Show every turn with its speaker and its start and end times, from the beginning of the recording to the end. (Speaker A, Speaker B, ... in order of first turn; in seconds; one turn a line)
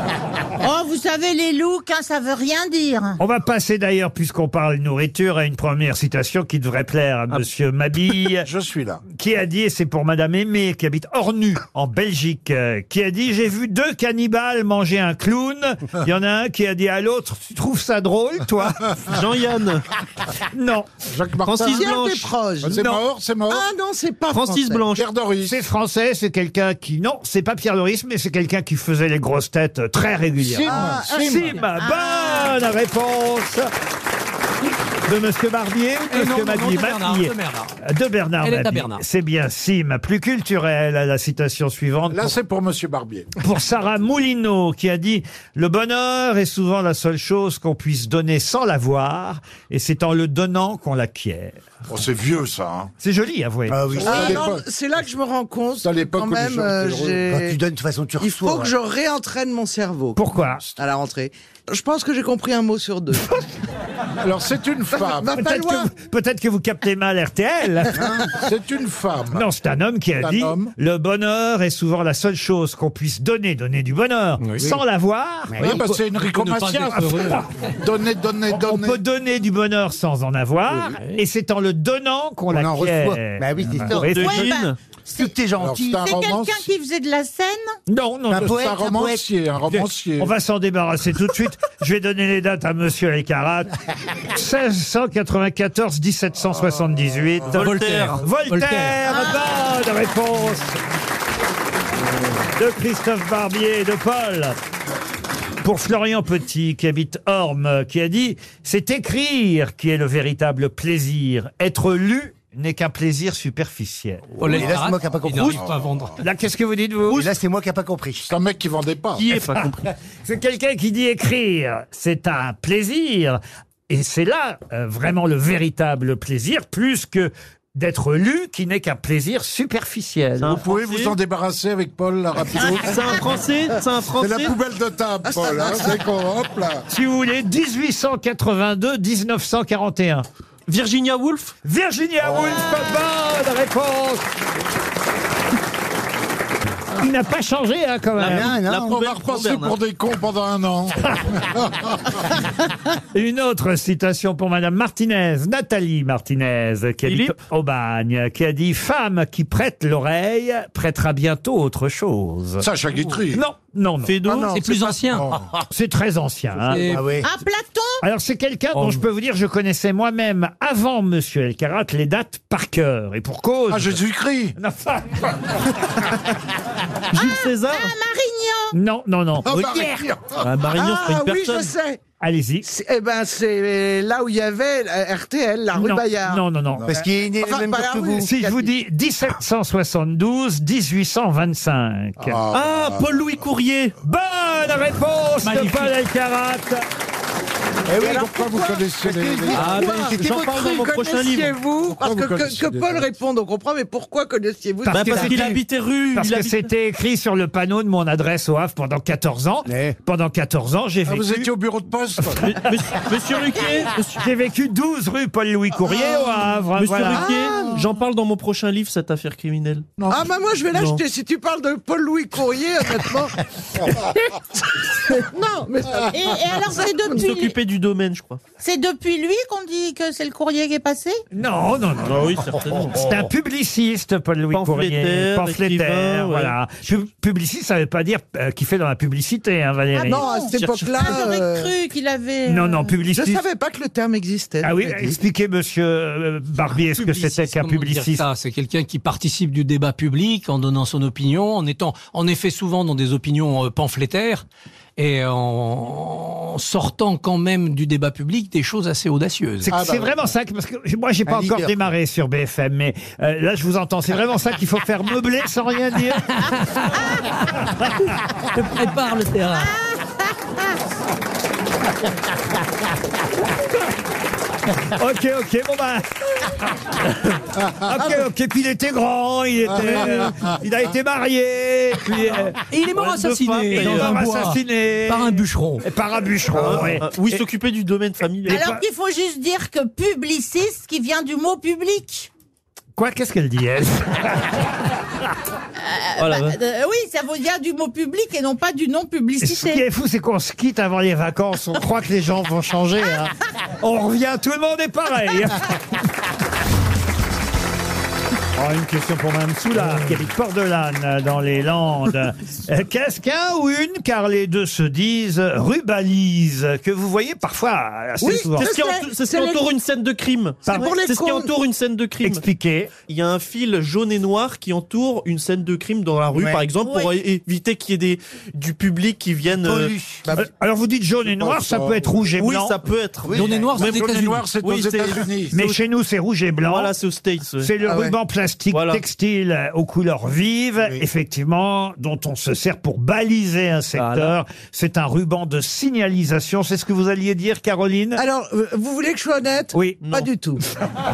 Speaker A: 0.6-3.2
Speaker B: 3.2-8.5
Speaker C: 8.3-9.0
Speaker B: 9.1-18.9
Speaker D: 19.1-19.9
Speaker B: 20.5-21.0
Speaker C: 21.1-21.9
Speaker D: 21.4-22.3
Speaker E: 21.6-22.8
Speaker C: 22.6-23.7
Speaker B: 22.8-23.0
Speaker E: 23.5-24.9
Speaker D: 24.3-25.1
Speaker C: 24.9-25.6
Speaker B: 25.4-33.7
Speaker E: 30.5-31.2
Speaker C: 30.6-31.6
Speaker A: 31.8-32.6
Speaker B: 35.1-42.3
Speaker F: 36.1-37.7
Speaker F: 38.4-39.0
Speaker C: 42.1-43.3
Speaker B: 43.4-51.6
Speaker C: 51.9-52.9
Speaker B: 53.0-53.8
Speaker G: 53.7-54.5
Speaker C: 53.9-54.6
Speaker E: 54.0-57.6
Speaker C: 55.8-57.2
Speaker G: 57.3-58.7
Speaker E: 58.2-60.2
Speaker B: 60.2-60.6
Speaker E: 60.8-63.3
Speaker C: 64.2-65.3
Speaker E: 65.0-65.9
Speaker B: 65.3-68.3
Speaker G: 68.0-68.3
Speaker C: 68.3-69.5
Speaker B: 69.3-75.7
Speaker C: 70.2-70.7
Speaker F: 74.4-74.8
Speaker G: 75.5-76.0
Speaker C: 75.6-79.0
Speaker F: 75.6-77.4
Speaker B: 78.5-84.5
Speaker G: 82.5-84.3
Speaker D: 84.0-84.8
Speaker A: 84.2-84.7
Speaker G: 85.1-86.0
Speaker C: 85.6-86.7
Speaker A: 86.0-87.8
Speaker B: 87.9-88.6
Speaker G: 88.3-89.2
Speaker C: 88.3-90.3
Speaker B: 90.2-93.7
Speaker B: 94.3-100.8
Speaker C: 96.6-97.6
Speaker D: 97.5-98.2
Speaker F: 97.6-99.0
Speaker A: 99.0-99.7
Speaker B: 102.6-104.6
Speaker B: 105.6-114.7
Speaker F: 114.4-116.2
Speaker G: 114.4-115.8
Speaker C: 115.4-116.0
Speaker B: 116.2-117.2
Speaker G: 117.1-118.3
Speaker C: 118.3-119.3
Speaker B: 119.2-119.7
Speaker D: 119.2-119.9
Speaker B: 120.2-130.6
Speaker D: 130.4-131.2
Speaker C: 130.5-133.1
Speaker D: 132.6-134.6
Speaker A: 132.6-133.2
Speaker C: 134.2-136.8
Speaker E: 135.3-136.0
Speaker B: 136.9-140.3
Speaker D: 140.7-141.5
Speaker B: 141.6-144.2
Speaker C: 142.3-142.6
Speaker B: 147.0-148.5
Speaker D: 148.2-149.8
Speaker G: 148.2-149.0
Speaker C: 148.8-152.2
Speaker B: 153.1-162.7
Speaker D: 157.1-157.3
Speaker C: 162.6-163.4
Speaker B: 163.3-164.2
Speaker D: 164.1-164.6
Speaker E: 164.2-165.0
Speaker F: 164.4-165.3
Speaker C: 165.1-165.4
Speaker B: 165.7-167.0
Speaker F: 166.7-167.2
Speaker G: 166.9-167.3
Speaker A: 167.2-168.0
Speaker B: 168.0-174.0
Speaker D: 168.8-169.0
Speaker C: 173.7-174.6
Speaker B: 174.6-175.9
Speaker D: 177.1-177.9
Speaker A: 177.1-178.7
Speaker B: 178.7-180.0
Speaker C: 179.4-180.4
Speaker D: 180.4-181.7
Speaker E: 180.7-182.0
Speaker B: 182.2-182.7
Speaker E: 182.6-186.4
Speaker B: 185.7-186.9
Speaker G: 186.9-188.3
Speaker E: 187.4-188.7
Speaker B: 188.2-192.4
Speaker C: 192.2-193.1
Speaker D: 192.5-193.9
Speaker B: 194.0-196.8
Speaker F: 195.4-195.9
Speaker G: 197.9-200.1
Speaker E: 197.9-198.8
Speaker C: 198.0-199.8
Speaker E: 199.5-205.4
Speaker D: 199.5-201.6
Speaker C: 201.9-203.1
Speaker B: 204.8-205.6
Speaker D: 204.9-206.7
Speaker B: 206.1-211.5
Speaker G: 209.7-210.0
Speaker C: 211.1-212.5
Speaker B: 212.2-212.7
Speaker D: 212.4-214.2
Speaker B: 214.2-217.5
Speaker D: 216.8-219.9
Speaker E: 217.2-217.8
Speaker C: 220.0-220.4
Speaker E: 220.1-223.4
Speaker D: 220.7-221.0
Speaker E: 225.0-227.0
Speaker A: 226.1-227.5
Speaker D: 227.1-228.4
Speaker A: 228.6-231.2
Speaker B: 231.3-232.3
Speaker D: 232.1-233.2
Speaker B: 232.9-241.1
Speaker D: 234.5-236.6
Speaker A: 240.0-242.9
Speaker E: 240.1-241.7
Speaker B: 242.5-243.4
Speaker E: 243.1-245.1
Speaker B: 244.6-248.2
Speaker F: 246.7-254.4
Speaker F: 255.0-259.7
Speaker B: 259.6-266.6
Speaker C: 259.7-260.2
Speaker G: 261.3-261.8
Speaker B: 267.6-267.9
Speaker F: 268.5-269.7
Speaker A: 269.6-270.5
Speaker B: 274.9-282.6
Speaker F: 282.7-285.9
Speaker D: 282.8-284.2
Speaker B: 283.7-287.4
Speaker D: 286.5-288.7
Speaker B: 288.5-288.8
Speaker A: 288.5-292.3
Speaker B: 293.0-294.6
Speaker A: 295.8-299.8
Speaker D: 296.2-296.6
Speaker B: 299.4-305.8
Speaker B: 308.6-318.7
Speaker E: 318.2-319.6
Speaker D: 318.6-322.4
Speaker E: 320.7-321.5
Speaker B: 322.2-322.9
Speaker D: 323.1-329.9
Speaker G: 326.3-326.6
Speaker A: 326.8-327.2
Speaker G: 329.6-330.3
Speaker B: 330.4-332.8
Speaker C: 331.3-332.3
Speaker D: 332.4-335.8
Speaker G: 333.2-333.8
Speaker F: 333.3-334.5
Speaker C: 333.6-335.6
Speaker B: 335.5-336.9
Speaker D: 336.6-337.7
Speaker B: 337.6-348.2
Speaker E: 337.9-338.1
Speaker D: 338.7-339.0
Speaker D: 343.9-344.4
Speaker E: 348.2-350.6
Speaker B: 349.7-350.0
Speaker D: 350.0-350.3